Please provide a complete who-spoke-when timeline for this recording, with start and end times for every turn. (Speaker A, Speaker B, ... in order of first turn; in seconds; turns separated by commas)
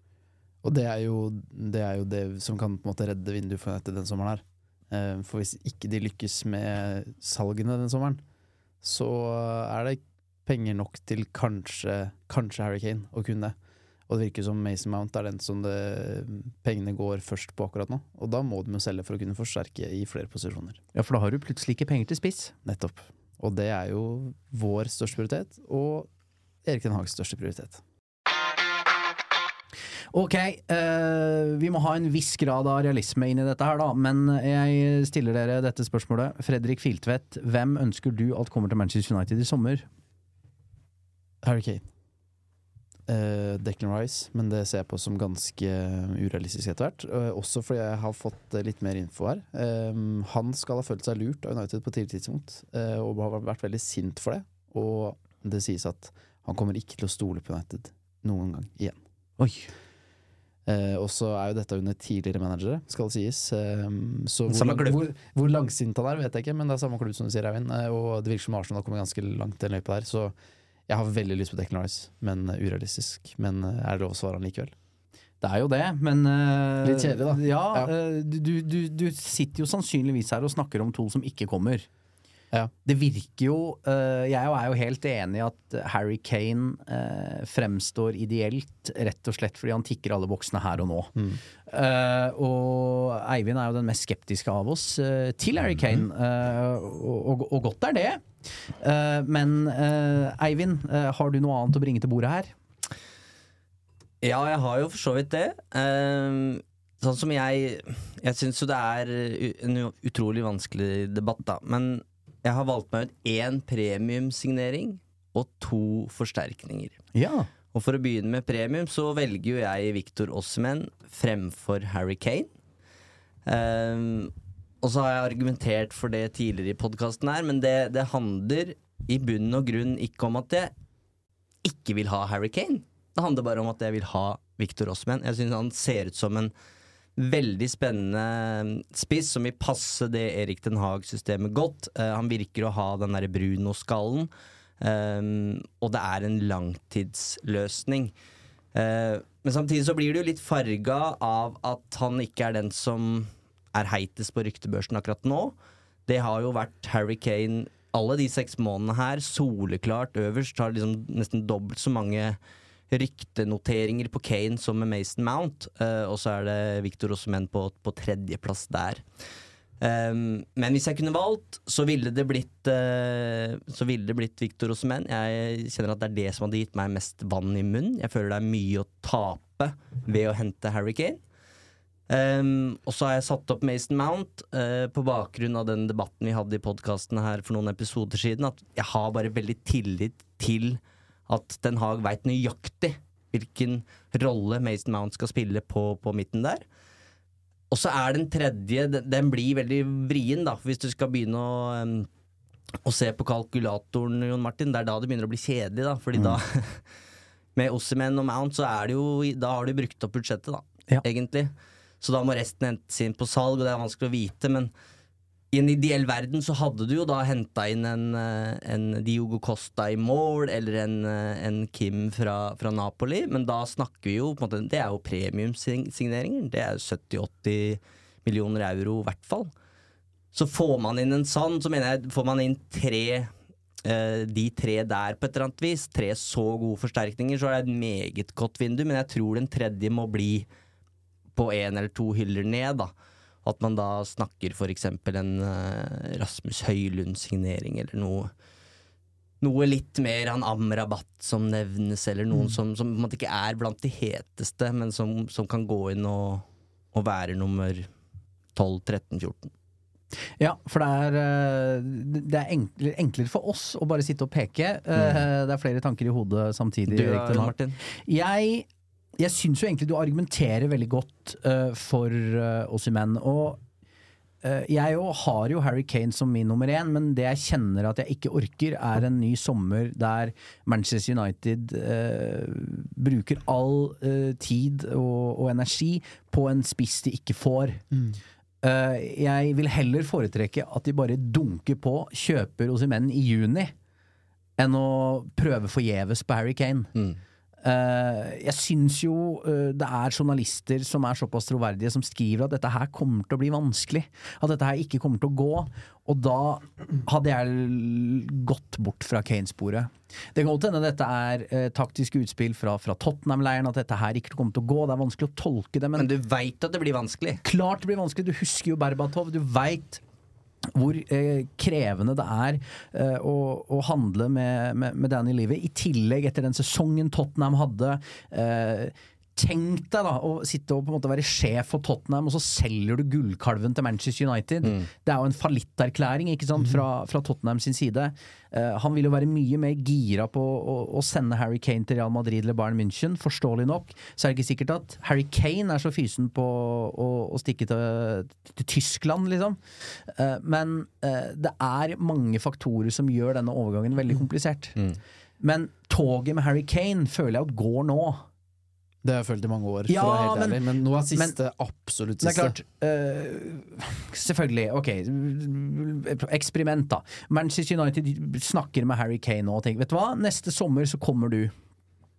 Speaker A: 0.6-8.2, Speaker A: 8.8-13.6, Speaker A: 14.1-20.8, Speaker B: 20.9-22.5, Speaker A: 22.6-26.1, Speaker A: 26.6-27.8, Speaker B: 30.1-39.9, Speaker A: 41.4-41.8, Speaker A: 43.1-59.0, Speaker B: 59.4-59.7, Speaker A: 60.6-70.3, Speaker A: 70.9-74.7, Speaker B: 75.4-81.9, Speaker A: 76.8-77.9, Speaker B: 82.8-91.1, Speaker A: 91.2-91.4, Speaker B: 91.7-102.5, Speaker C: 104.2-117.0, Speaker B: 117.1-117.5, Speaker C: 117.7-122.5, Speaker C: 123.5-130.7, Speaker C: 131.6-136.5, Speaker C: 137.2-148.1, Speaker C: 148.7-155.5, Speaker C: 156.1-162.4, Speaker C: 162.9-169.0, Speaker C: 169.8-181.2, Speaker C: 182.1-196.6, Speaker C: 197.7-202.1, Speaker C: 202.8-206.8, Speaker C: 207.6-214.7, Speaker C: 215.5-229.5, Speaker C: 230.3-233.3, Speaker C: 233.8-240.5, Speaker C: 241.3-242.9, Speaker C: 243.4-248.3, Speaker C: 249.4-257.9, Speaker C: 258.5-259.5, Speaker B: 260.4-268.6, Speaker C: 265.0-265.2, Speaker C: 266.9-267.8, Speaker B: 269.2-273.6, Speaker B: 274.4-287.8, Speaker A: 287.9-288.2, Speaker B: 288.6-293.7, Speaker B: 294.6-296.9, Speaker B: 297.6-316.1, Speaker C: 315.9-317.4, Speaker B: 317.4-320.0, Speaker B: 320.7-354.8, Speaker B: 355.4-358.2, Speaker A: 359.0-362.6, Speaker B: 359.9-360.6, Speaker B: 362.2-371.5